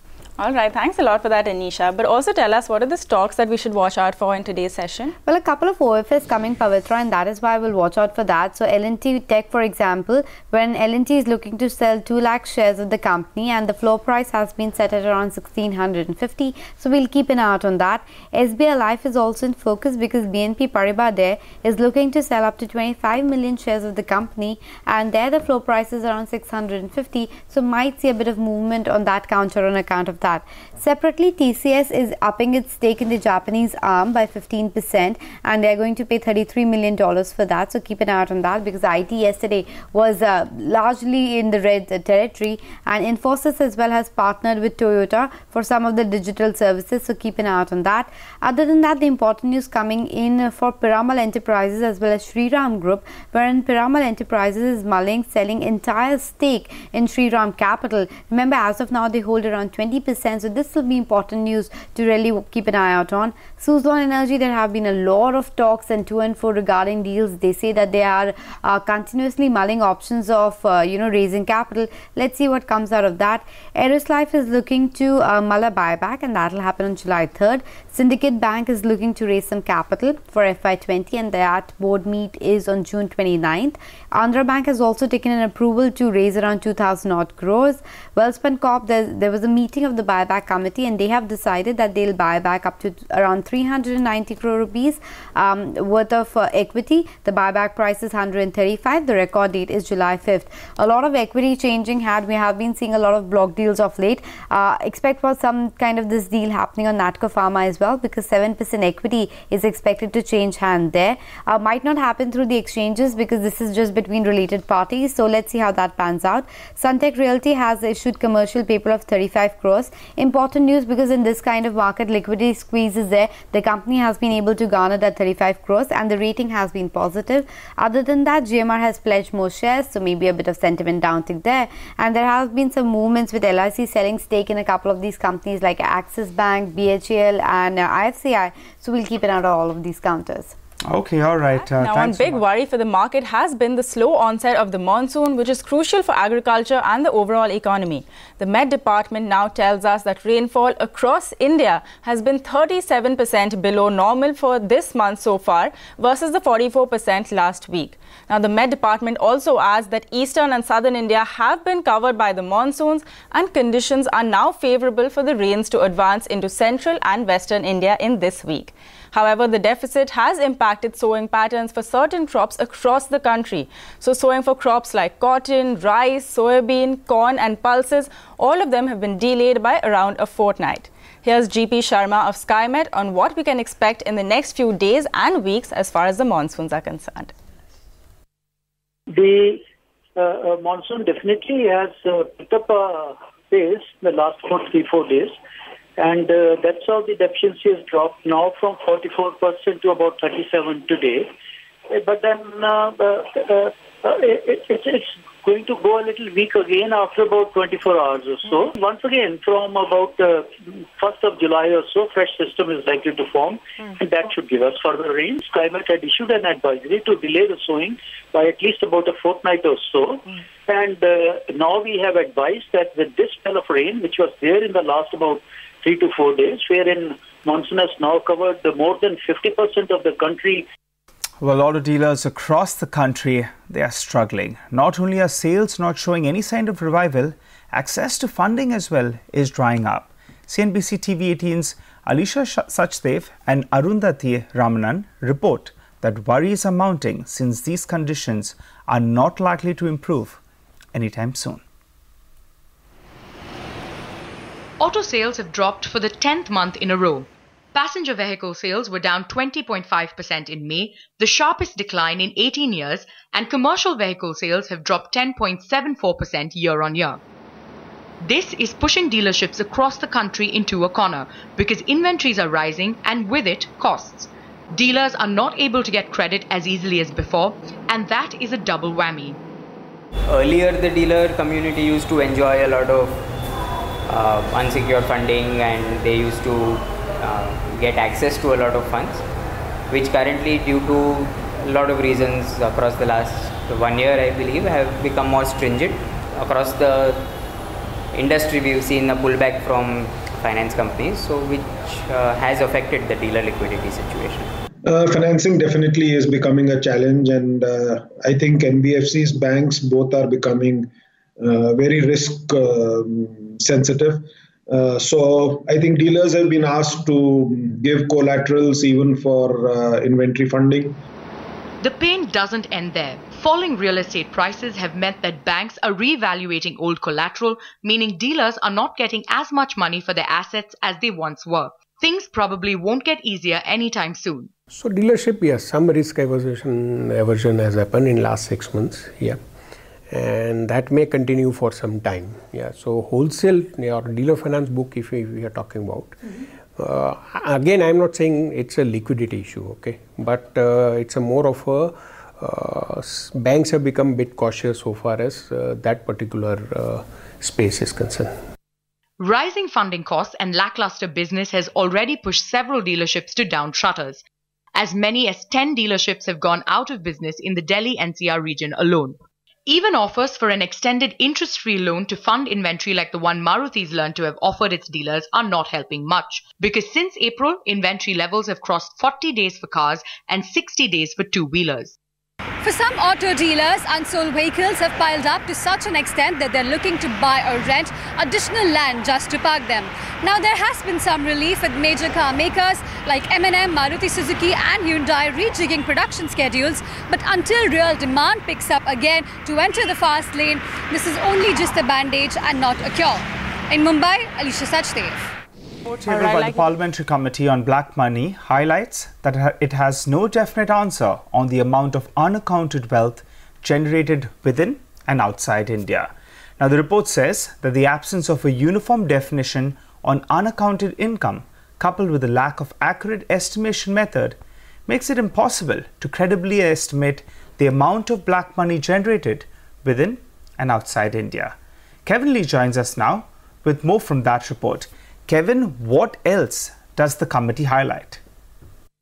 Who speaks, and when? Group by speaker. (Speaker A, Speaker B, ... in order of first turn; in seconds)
Speaker A: 0.4-5.1, 141.8-187.3, 406.1-406.7
Speaker B: 5.2-140.6
Speaker C: 140.9-142.4, 231.4-250.4, 250.9-251.6, 405.9-431.5, 432.1-438.2
Speaker D: 189.1-189.6, 190.2-195.4, 196.0-201.3, 201.9-230.7
Speaker E: 254.8-267.2, 268.2-279.4, 321.8-334.5, 359.2-364.2, 364.8-381.9
Speaker F: 280.3-283.3, 284.1-289.2, 289.9-297.3, 298.1-304.5
Speaker G: 304.9-321.0
Speaker H: 334.7-339.4, 340.1-358.3
Speaker I: 382.6-405.2